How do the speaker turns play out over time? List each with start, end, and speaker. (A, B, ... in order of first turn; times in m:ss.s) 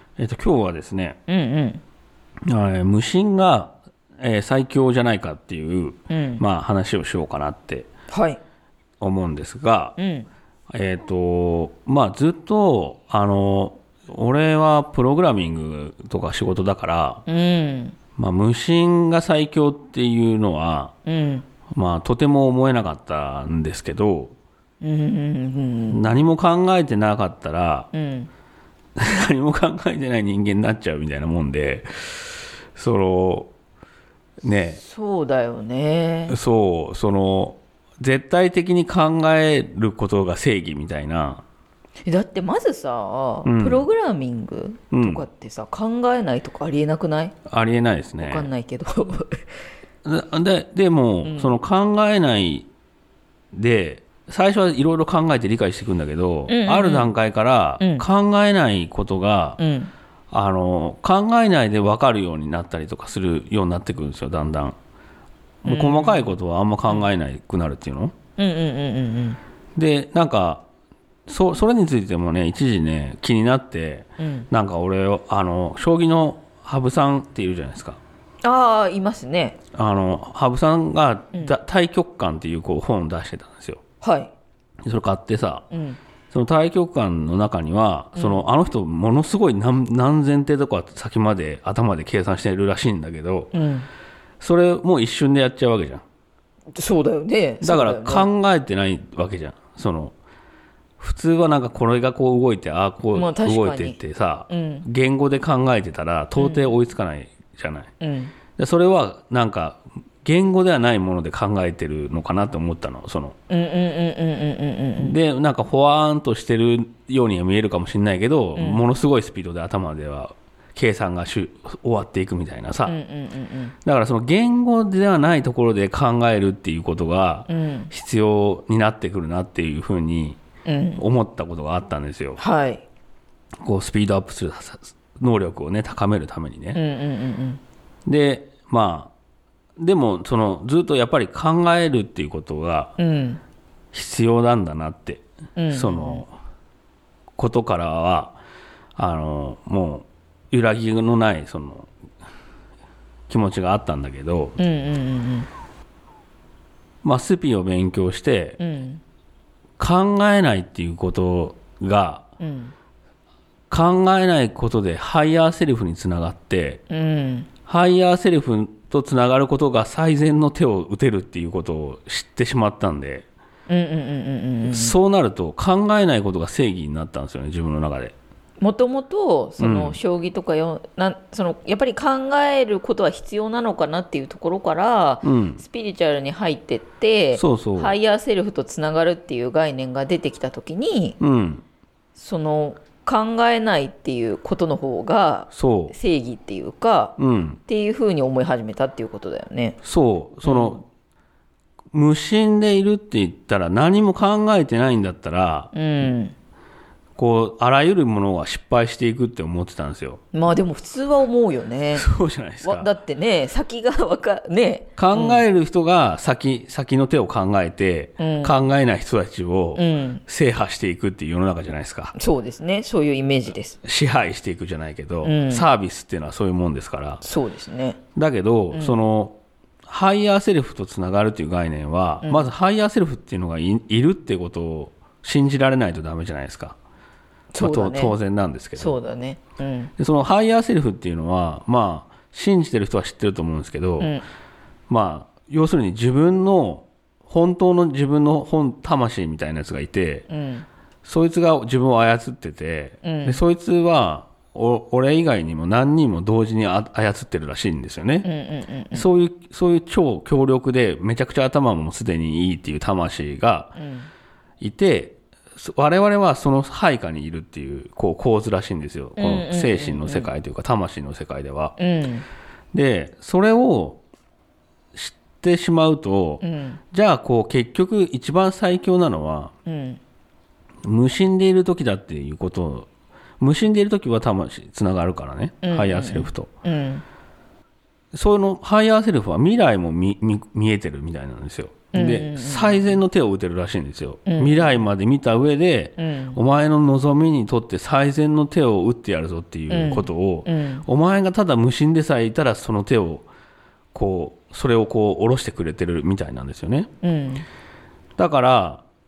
0:00.2-0:01.2 A
0:01.3-0:01.8 B
0:02.5-0:07.9 A
0:06.1-0:06.4 B
0:08.1-0:08.4 B
0:09.0-0:10.0 A
0:10.0-0:10.3 B
0:10.7-0:17.2 A
0:17.3-0:18.0 B
0:18.2-0:20.9 A
0:21.0-0:21.4 B
0:21.7-0:24.3 A
0:24.8-0:26.1 B
0:25.9-0:27.9 A
0:27.9-0:28.3 B
0:29.0-0:33.5 A
0:34.4-0:34.8 A
0:34.8-0:36.4 B
0:36.3-0:41.4 A
0:42.0-0:47.3 B
0:43.4-0:43.8 A
0:44.9-0:45.2 A
0:47.5-0:48.5 A
0:48.2-0:49.5 B
0:50.0-0:52.7 A
0:51.2-0:51.5 B
0:53.5-0:59.6 A
0:56.5-0:57.1 B
0:57.8-0:58.0 B
0:59.6-0:59.9 B
1:00.3-1:04.8 A
1:05.6-1:08.1 A
1:05.6-1:06.3 B
1:08.4-1:09.4 B
1:09.8-1:10.6 A
1:11.3-1:18.0 A
1:14.2-1:14.5 B
1:18.4-1:19.6 B
1:19.7-1:23.8 A
1:24.0-1:24.3 B
1:24.8-1:25.6 A
1:25.7-1:26.0 B
1:26.3-1:33.5 A
1:28.2-1:28.4 B
1:33.5-1:33.9 B
1:34.4-1:36.0 A
1:36.7-1:38.3 B
1:37.6-1:40.1 A
1:41.0-1:47.9 A
1:43.1-1:44.0 B
1:44.5-1:44.8 B
1:46.4-1:46.7 B
1:48.0-1:48.3 B
1:48.6-1:53.3 A
1:53.5-1:55.2 B
1:55.0-2:03.0 A
1:58.6-1:58.8 B
2:02.8-2:03.7 B
2:03.8-2:10.4 A
2:07.5-2:07.9 B
2:10.6-2:11.0 B
2:11.0-2:12.4 A
2:12.4-2:12.8 B
2:13.6-2:16.8 A
2:16.7-2:17.6 B
2:18.1-2:19.1 A
2:19.8-2:22.9 A
2:23.0-2:23.4 B
2:23.9-2:26.3 A
2:25.6-2:26.2 B
2:27.4-2:28.4 A
2:29.0-2:31.9 A
2:33.3-2:34.6 A
2:34.6-2:35.5 B
2:37.0-2:38.6 A
2:38.6-2:39.0 B
2:39.8-2:42.2 A
2:42.4-2:42.7 B
2:43.7-2:46.8 A
2:46.9-2:47.5 B
2:47.7-2:53.2 A
2:53.7-2:55.0 B
2:54.6-2:58.1 A
2:58.6-3:11.2 B
2:59.6-3:00.0 A
3:05.2-3:05.6 A
3:07.3-3:08.0 A
3:11.2-3:11.6 A
3:12.2-3:17.2 B
3:15.5-3:15.9 A
3:17.2-3:17.6 A
3:17.7-3:19.8 B
3:19.8-3:20.8 A
3:20.4-3:20.8 B
3:21.9-3:25.7 A
3:25.7-3:26.3 B
3:27.2-3:30.2 A
3:30.3-3:32.1 B
3:31.9-3:32.9 A
3:32.6-3:35.4 B
3:35.0-3:42.1 A
3:38.2-3:38.6 B
3:39.8-3:40.2 B
3:42.1-3:43.8 B
3:43.8-3:47.2 A
3:45.2-3:45.6 B
3:47.2-3:48.0 B
3:48.1-3:56.8 A
3:48.7-3:49.0 B
3:52.2-3:52.5 B
3:57.5-3:58.2 B
3:57.6-3:59.0 A
3:58.8-3:59.9 B
4:00.0-4:04.1 A
4:04.0-4:04.2 B
4:04.9-4:10.3 A
4:10.3-4:10.6 B
4:11.0-4:18.3 A
4:13.0-4:13.4 B
4:18.2-4:19.0 B
4:18.9-4:23.7 A
4:23.8-4:24.1 B
4:24.6-4:31.8 A
4:29.2-4:30.3 B
4:31.8-4:32.2 B
4:32.7-4:34.0 A
4:34.9-4:39.5 A
4:36.4-4:36.8 B
4:39.6-4:40.0 B
4:40.8-4:42.9 A
4:43.4-4:46.5 A
4:45.6-4:47.0 B
4:48.1-5:03.2 A
4:51.9-4:53.0 B
4:54.2-4:54.8 B
4:56.0-4:56.4 B
4:59.7-5:00.8 B
5:03.9-5:06.9 A
5:07.0-5:07.4 B
5:08.2-5:08.8 A